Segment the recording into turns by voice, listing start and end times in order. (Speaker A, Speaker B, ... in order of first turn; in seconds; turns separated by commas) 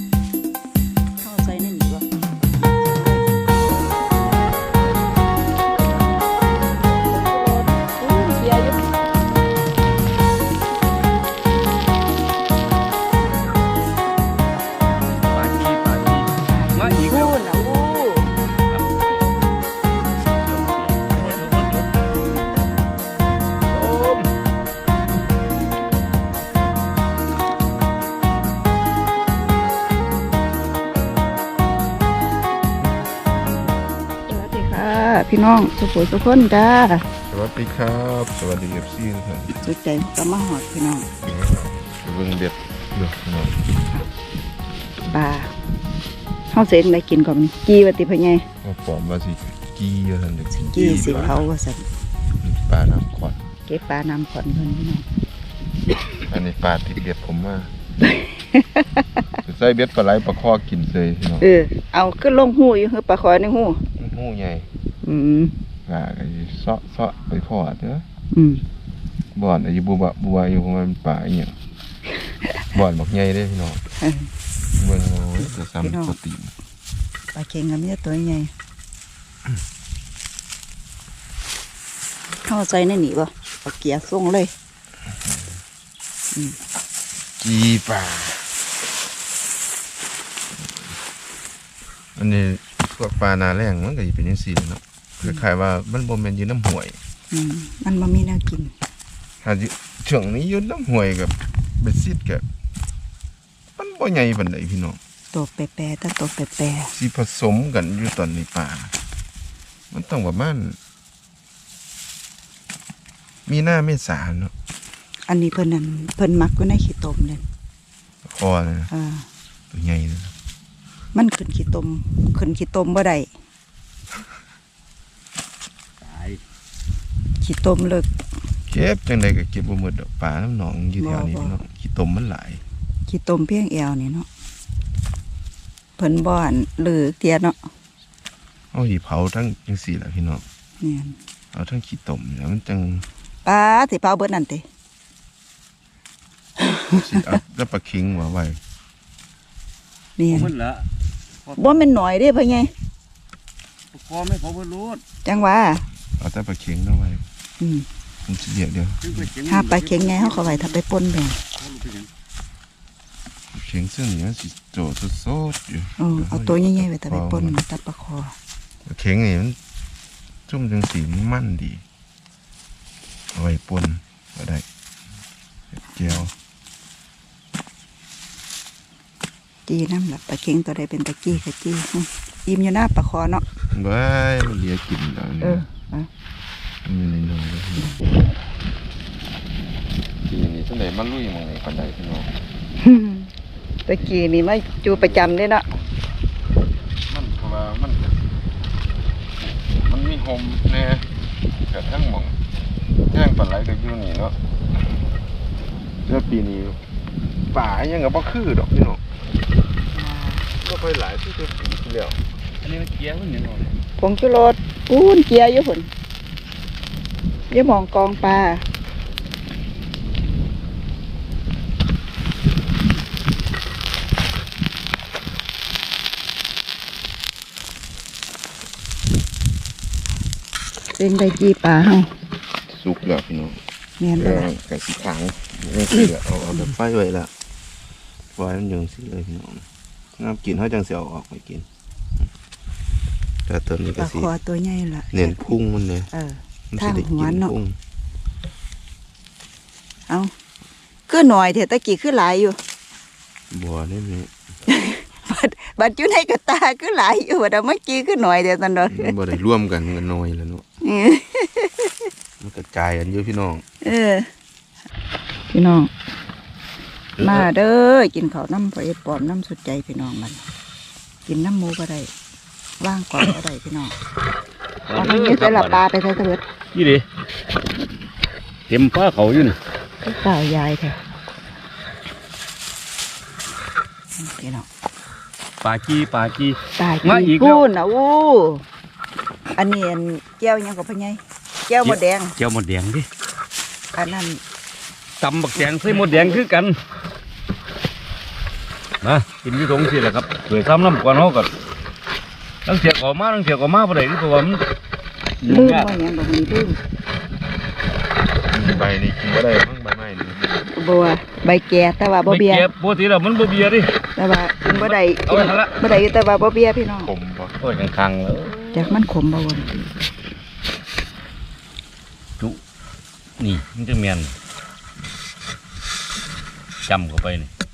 Speaker A: 1.2-3.4, Speaker A: 7.0-8.9, Speaker B: 15.2-17.4, Speaker A: 16.4-18.3, Speaker B: 18.6-19.3, Speaker B: 20.3-21.9, Speaker B: 23.7-24.3, Speaker A: 34.3-37.1, Speaker C: 37.3-39.6, Speaker A: 39.6-41.1, Speaker C: 41.2-43.6, Speaker A: 45.0-45.5, Speaker A: 46.5-48.5, Speaker C: 48.6-51.4, Speaker A: 50.6-51.8, Speaker C: 52.4-53.5, Speaker A: 53.7-55.0, Speaker C: 56.3-57.7, Speaker A: 58.0-59.0, Speaker C: 59.4-61.4, Speaker A: 61.4-63.8, Speaker C: 64.0-64.7, Speaker A: 65.0-65.5, Speaker C: 65.9-68.0, Speaker A: 68.3-68.6, Speaker C: 69.3-71.6, Speaker C: 72.7-73.8, Speaker A: 74.0-74.3, Speaker C: 74.8-76.5, Speaker A: 75.4-76.2, Speaker A: 77.3-78.5, Speaker A: 82.4-84.5, Speaker C: 87.4-88.5, Speaker C: 92.2-97.0, Speaker A: 97.3-98.7, Speaker C: 99.4-102.4, Speaker C: 103.8-105.0, Speaker A: 105.3-106.9, Speaker C: 106.9-108.9, Speaker C: 109.9-110.8, Speaker C: 113.5-114.5, Speaker A: 115.3-117.4, Speaker C: 118.2-118.9, Speaker A: 118.9-119.3, Speaker C: 119.7-120.3, Speaker A: 121.1-123.3, Speaker B: 126.0-126.4, Speaker A: 127.4-128.1, Speaker C: 128.7-132.6, Speaker A: 131.0-131.6, Speaker A: 133.1-134.3, Speaker A: 136.0-137.6, Speaker C: 138.7-140.4, Speaker A: 140.8-141.2, Speaker C: 141.5-143.0, Speaker A: 143.4-144.6, Speaker A: 146.6-147.0, Speaker C: 146.9-148.6, Speaker A: 150.2-150.5, Speaker B: 150.3-150.8, Speaker B: 151.4-151.9, Speaker A: 151.6-152.7, Speaker B: 153.9-155.0, Speaker A: 155.2-155.8, Speaker C: 156.2-157.2, Speaker A: 157.6-157.9, Speaker C: 158.2-159.2, Speaker B: 159.0-160.8, Speaker A: 159.4-161.4, Speaker B: 161.6-162.1, Speaker C: 163.5-167.6, Speaker A: 166.0-168.3, Speaker C: 168.8-169.6, Speaker C: 170.5-171.8, Speaker C: 173.3-174.6, Speaker C: 175.9-176.3, Speaker A: 179.7-183.4, Speaker C: 183.7-185.6, Speaker A: 185.4-186.1, Speaker C: 186.8-188.0, Speaker C: 190.2-192.3, Speaker A: 192.8-193.3, Speaker A: 193.8-195.7, Speaker C: 194.8-196.0, Speaker C: 197.1-198.1, Speaker C: 199.6-201.1, Speaker C: 201.7-202.4, Speaker C: 203.1-204.3, Speaker C: 206.1-206.8, Speaker C: 207.5-209.0, Speaker A: 209.9-210.5, Speaker C: 210.6-212.2, Speaker B: 212.6-213.8, Speaker A: 214.0-215.9, Speaker A: 217.5-218.6, Speaker A: 230.9-232.1, Speaker C: 232.7-233.6, Speaker A: 234.0-234.5, Speaker C: 234.2-237.3, Speaker C: 238.3-239.6, Speaker C: 240.2-241.7, Speaker C: 243.4-244.3, Speaker A: 243.9-245.6, Speaker C: 245.1-246.1, Speaker A: 246.1-247.5, Speaker C: 246.7-247.8, Speaker A: 251.1-252.6, Speaker C: 253.5-254.3, Speaker A: 254.7-259.1, Speaker C: 258.9-260.6, Speaker A: 260.8-262.1, Speaker C: 262.4-263.6, Speaker A: 263.8-264.3, Speaker A: 265.5-265.9, Speaker B: 267.2-267.5, Speaker A: 267.2-270.4, Speaker A: 271.2-272.1, Speaker A: 272.8-273.9, Speaker B: 274.9-275.8, Speaker A: 274.9-276.4, Speaker B: 276.7-277.0, Speaker B: 278.7-279.6, Speaker A: 280.0-281.0, Speaker A: 284.2-284.6, Speaker B: 285.6-287.6, Speaker A: 286.8-288.6, Speaker A: 289.5-292.3, Speaker B: 291.8-293.1, Speaker A: 293.9-294.4, Speaker B: 295.2-296.8, Speaker A: 295.6-296.4, Speaker B: 299.0-301.5, Speaker B: 302.6-304.6, Speaker B: 305.4-305.9, Speaker A: 305.4-306.8, Speaker C: 308.5-310.6, Speaker A: 310.7-312.7, Speaker B: 312.2-313.9, Speaker A: 314.1-317.1, Speaker B: 314.7-315.8, Speaker C: 317.0-317.6, Speaker B: 317.6-318.9, Speaker A: 318.7-319.9, Speaker B: 323.4-324.3, Speaker B: 326.9-327.5